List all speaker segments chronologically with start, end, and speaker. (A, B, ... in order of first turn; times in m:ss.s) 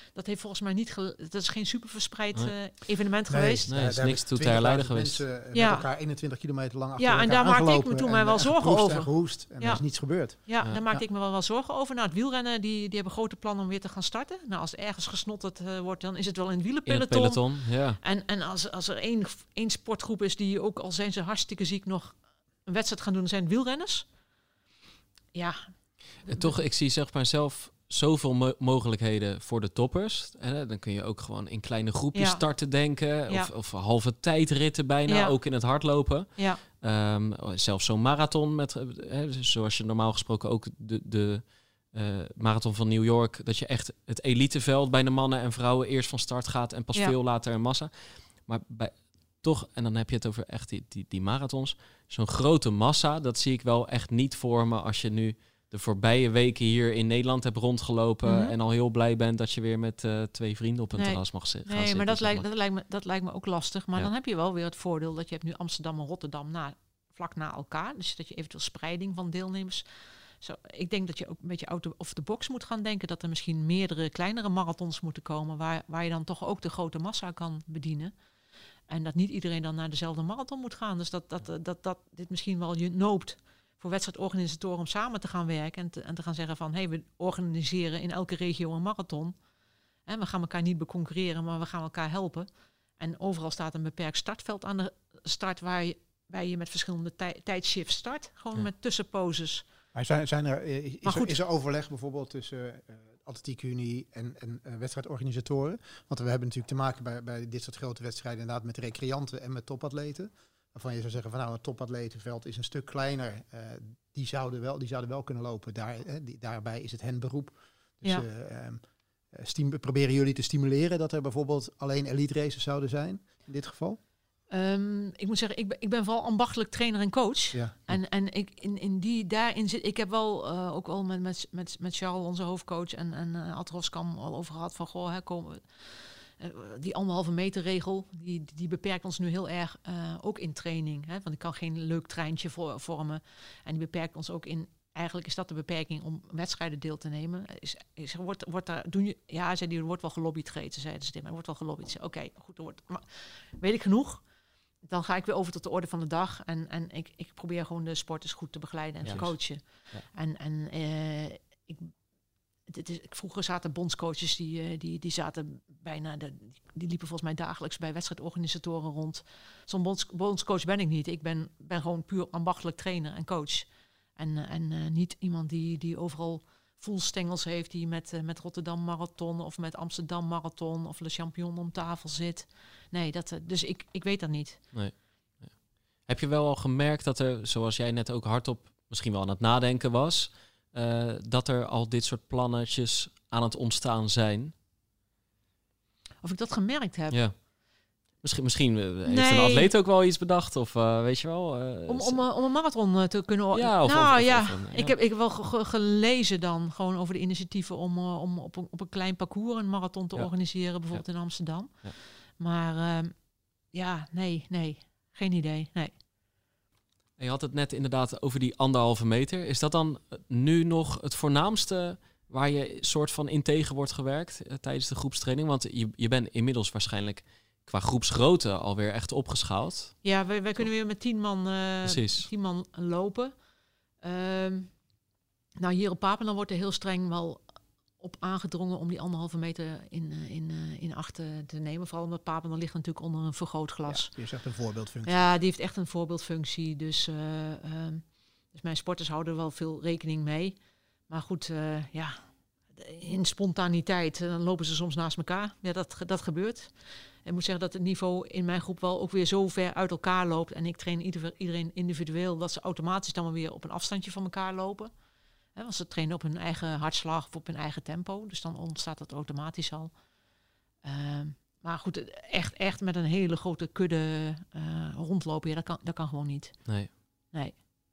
0:00.1-0:03.7 A
0:03.3-0:11.0 B
0:03.7-0:05.2 C
0:05.5-0:05.9 A
0:07.0-0:24.0 A
0:16.9-0:18.0 C
0:25.3-0:26.6 A
0:26.3-1:02.4 C
0:32.1-0:32.4 A
0:35.1-0:35.3 A
0:58.2-0:58.5 A
1:01.0-1:09.8 A
1:10.4-1:18.1 A
1:18.9-1:29.3 A
1:30.0-1:39.6 A
1:39.9-2:04.0 B
1:41.0-1:41.4 A
2:04.5-2:34.2 A
2:07.5-2:08.0 B
2:34.8-2:41.9 A
2:39.0-2:40.0 C
2:42.7-3:04.6 A
3:04.7-3:14.5 C
3:16.2-3:17.2 A
3:17.1-3:17.4 C
3:18.2-3:22.2 C
3:19.1-3:19.7 A
3:21.9-3:33.2 A
3:23.5-3:25.0 C
3:30.1-3:32.0 C
3:33.7-3:35.9 A
3:37.2-3:50.7 C
3:50.0-3:53.3 A
3:51.8-3:52.3 C
3:54.0-3:54.7 A
3:55.6-3:57.4 A
3:58.0-4:04.1 A
4:03.9-4:05.2 B
4:05.0-4:10.6 A
4:11.1-4:16.7 A
4:17.2-4:24.9 A
4:25.5-4:29.9 A
4:30.8-4:36.6 A